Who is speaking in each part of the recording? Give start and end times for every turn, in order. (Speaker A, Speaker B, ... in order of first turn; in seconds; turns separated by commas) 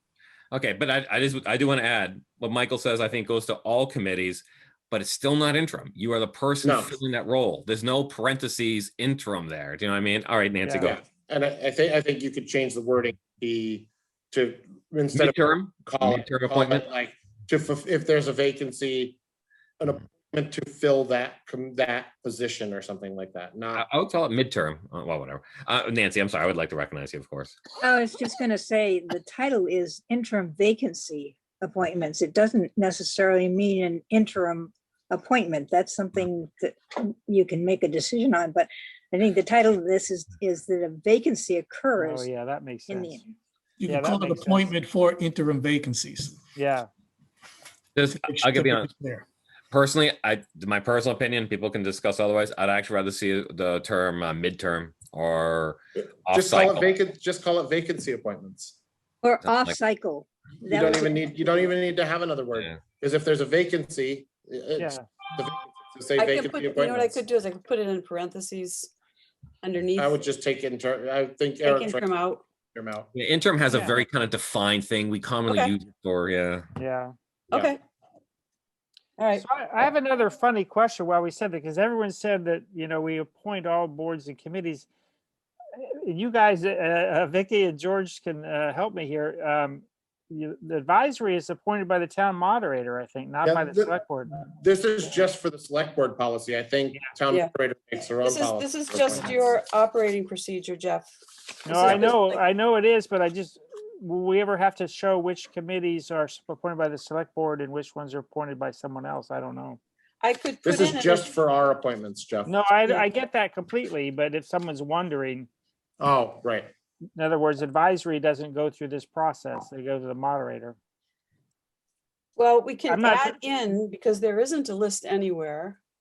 Speaker A: 0.5-11.0, Speaker B: 6.6-7.0, Speaker C: 10.6-10.9, Speaker B: 10.8-19.2, Speaker A: 15.1-16.9, Speaker B: 19.8-23.9, Speaker A: 23.8-27.6, Speaker D: 27.8-42.3, Speaker C: 42.0-43.2, Speaker D: 42.9-43.3, Speaker E: 43.8-46.4, Speaker C: 43.8-44.7, Speaker C: 46.5-46.9, Speaker A: 48.0-48.9, Speaker E: 48.0-49.2, Speaker A: 49.7-57.0, Speaker B: 56.3-58.8, Speaker D: 59.2-61.7, Speaker A: 59.4-59.8, Speaker B: 60.6-67.2, Speaker C: 64.8-65.0, Speaker F: 66.2-68.9, Speaker F: 69.6-70.3, Speaker B: 70.0-72.0, Speaker F: 71.6-72.4, Speaker B: 72.7-73.1, Speaker A: 73.1-76.7, Speaker C: 73.7-74.0, Speaker F: 75.5-75.7, Speaker C: 76.8-77.1, Speaker F: 77.5-77.8, Speaker F: 79.2-79.5, Speaker C: 79.4-84.9, Speaker C: 85.8-94.4, Speaker B: 93.4-93.9, Speaker B: 94.5-99.6, Speaker F: 98.2-101.1, Speaker F: 101.6-102.4, Speaker C: 101.7-109.8, Speaker B: 101.8-102.1, Speaker F: 110.2-111.3, Speaker B: 110.6-112.5, Speaker C: 112.5-115.5, Speaker B: 116.0-116.7, Speaker C: 117.2-120.8, Speaker F: 122.4-125.8, Speaker C: 122.9-123.4